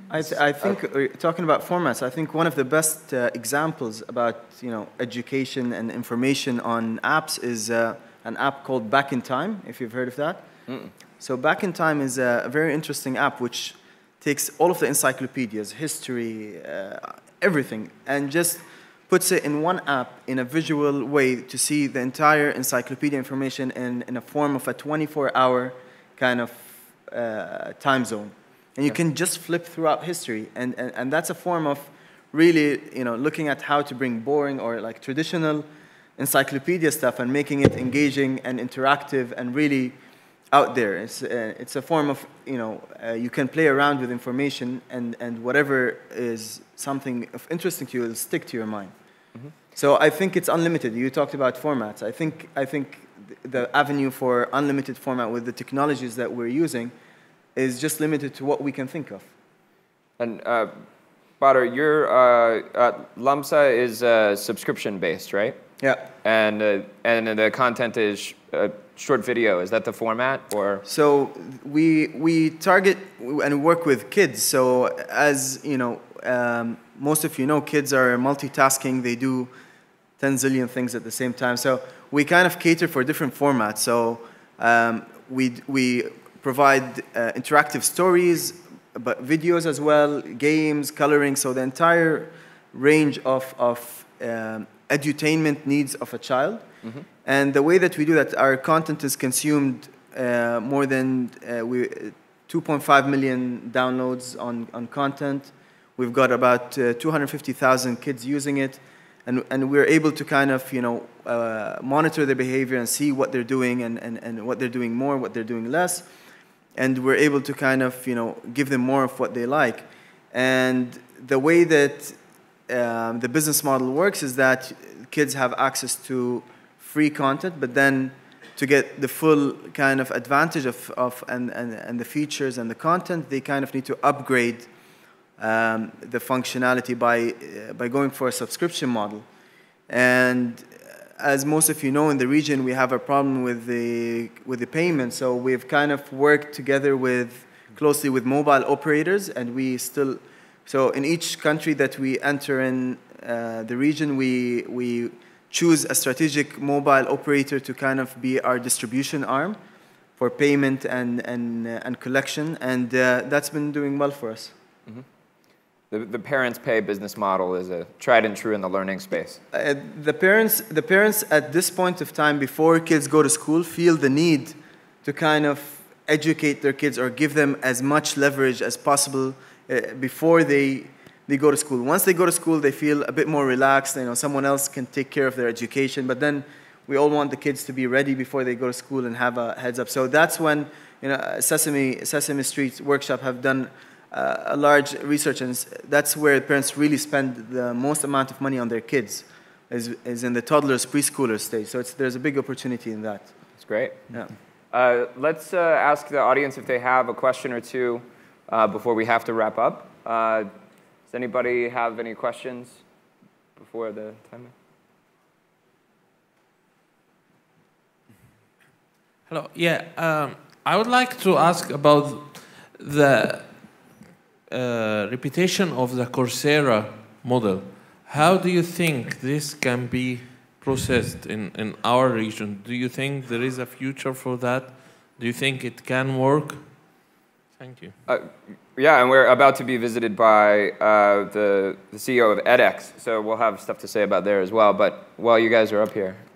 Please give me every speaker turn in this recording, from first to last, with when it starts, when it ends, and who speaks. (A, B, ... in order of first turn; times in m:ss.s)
0:00.1-0:10.4 A
0:11.2-0:40.0 A
0:40.5-0:48.9 A
0:49.7-0:56.9 A
0:57.6-0:59.3 A
1:00.2-1:00.7 B
1:01.4-1:05.6 B
1:05.8-1:06.1 A
1:06.2-1:10.8 B
1:10.9-1:19.5 A
1:20.2-1:36.6 A
1:37.2-1:56.1 A
1:56.8-2:02.2 A
2:02.7-2:14.7 A
2:15.4-2:19.2 A
2:19.9-2:39.6 A
2:40.2-2:44.5 A
2:45.9-2:49.4 B
2:49.5-3:23.3 A
3:23.6-3:24.1 B
3:24.7-3:30.5 B
3:31.1-3:32.8 B
3:33.6-3:34.5 B
3:39.3-3:56.8 C
3:57.6-3:58.0 C
3:58.1-4:06.2 B